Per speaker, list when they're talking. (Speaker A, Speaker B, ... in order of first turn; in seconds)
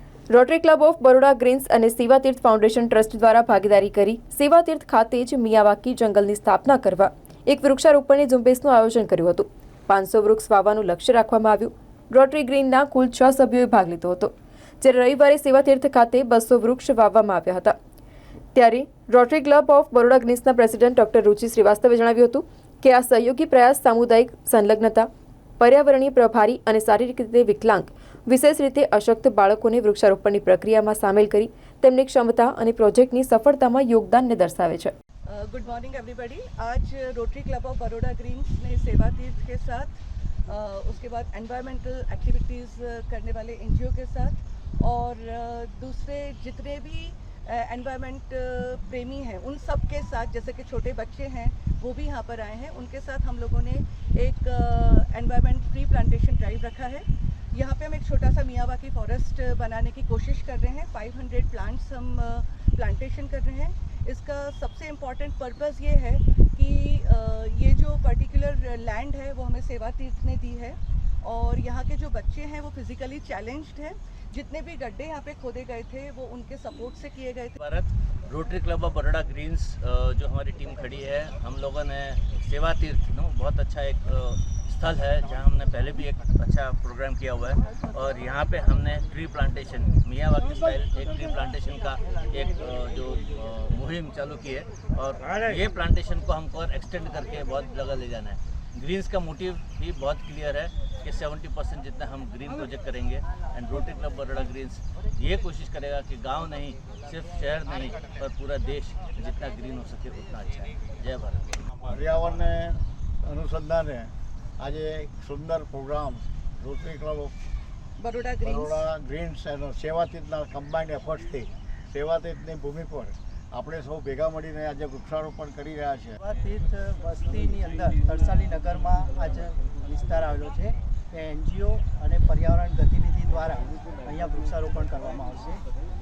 Speaker A: 0.3-17.8, 18.5-25.1, 25.6-34.9
Speaker B: 35.3-77.6, 118.0-118.9
Speaker C: 77.6-111.7
Speaker D: 111.8-117.3, 118.4-126.2
Speaker E: 126.2-135.7